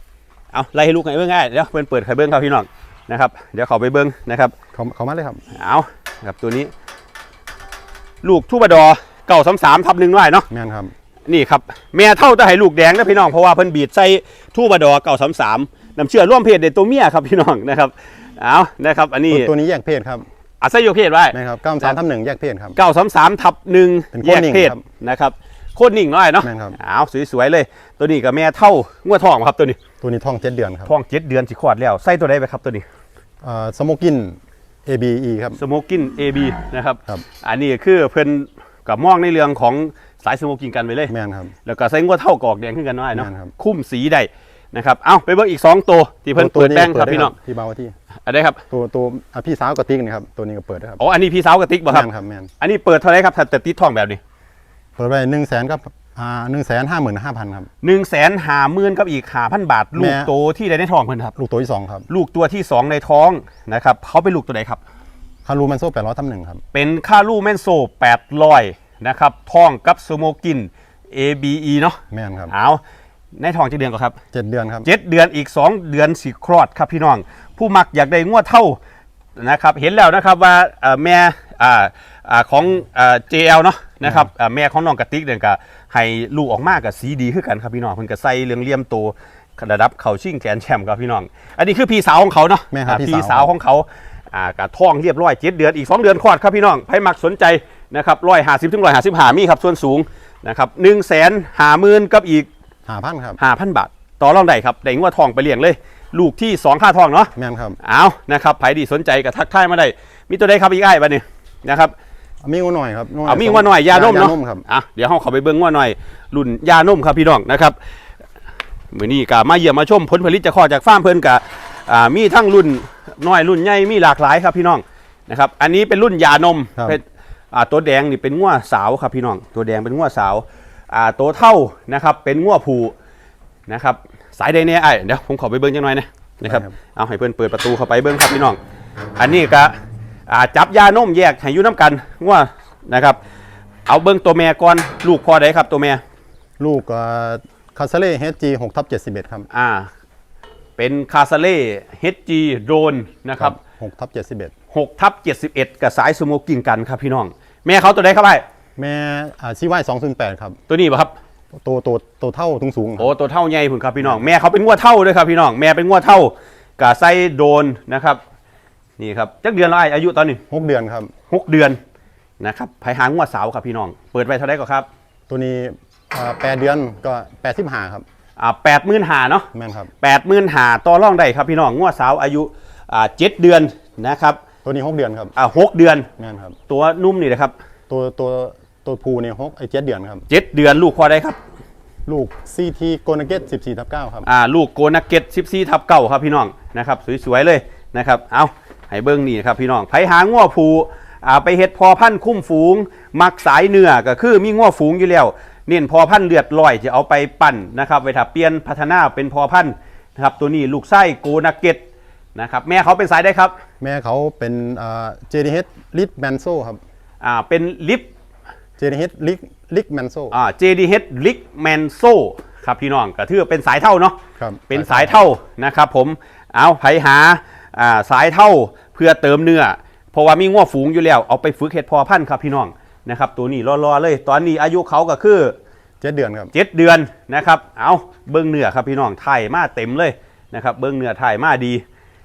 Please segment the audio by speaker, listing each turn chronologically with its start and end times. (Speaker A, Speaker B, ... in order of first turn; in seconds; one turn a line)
Speaker A: 0.5-4.5
Speaker B: 4.7-5.4
Speaker A: 5.5-6.7
Speaker A: 8.2-10.5
Speaker B: 10.5-10.9
Speaker A: 11.3-19.5
Speaker B: 19.3-20.3
Speaker A: 20.6-22.0
Speaker B: 21.3-22.8
Speaker A: 22.8-29.8
Speaker B: 24.1-24.8
Speaker B: 26.4-26.8
Speaker B: 30.0-30.9
Speaker A: 30.9-32.9
Speaker B: 33.4-35.6
Speaker A: 35.6-41.1
Speaker B: 41.1-41.5
Speaker A: 41.6-47.3
Speaker B: 43.1-43.5
Speaker B: 46.4-47.9
Speaker A: 48.3-48.6
Speaker B: 48.7-51.0
Speaker A: 51.0-52.1
Speaker B: 51.9-52.5
Speaker A: 52.6-54.2
Speaker B: 55.0-57.7
Speaker A: 57.8-61.3
Speaker B: 60.0-60.3
Speaker B: 61.4-62.1
Speaker A: 62.1-64.8
Speaker B: 65.5-66.6
Speaker A: 66.7-72.0
Speaker B: 72.1-72.5
Speaker A: 72.5-72.8
Speaker A: 73.4-74.2
Speaker B: 74.3-74.9
Speaker A: 74.8-78.8
Speaker A: 79.4-102.5
Speaker B: 92.7-93.5
Speaker B: 102.9-103.4
Speaker A: 103.4-107.3
Speaker B: 107.4-107.8
Speaker A: 107.8-111.9
Speaker B: 112.4-114.6
Speaker A: 113.3-117.8
Speaker A: 118.9-132.9
Speaker A: 133.7-138.6
Speaker B: 136.4-136.7
Speaker A: 139.2-139.7
Speaker A: 140.3-143.2
Speaker A: 143.9-146.0
Speaker B: 146.6-149.5
Speaker A: 149.5-149.9
Speaker A: 150.8-153.6
Speaker B: 153.4-154.5
Speaker A: 154.7-158.4
Speaker B: 158.8-160.6
Speaker A: 160.7-161.1
Speaker B: 161.6-163.1
Speaker A: 163.0-168.2
Speaker A: 169.0-170.4
Speaker B: 170.5-171.1
Speaker A: 171.3-171.8
Speaker A: 172.4-174.9
Speaker B: 175.3-178.0
Speaker A: 178.4-179.5
Speaker B: 179.5-179.9
Speaker A: 180.0-184.4
Speaker B: 184.7-185.3
Speaker A: 185.4-186.1
Speaker B: 186.2-186.6
Speaker A: 186.7-187.5
Speaker B: 187.9-190.2
Speaker A: 190.3-191.4
Speaker B: 192.1-194.3
Speaker A: 194.3-211.8
Speaker A: 212.4-213.6
Speaker B: 213.8-216.8
Speaker A: 217.2-218.1
Speaker B: 218.8-220.3
Speaker A: 220.3-224.2
Speaker B: 224.4-225.2
Speaker A: 224.7-235.6
Speaker B: 236.0-236.5
Speaker A: 236.5-241.8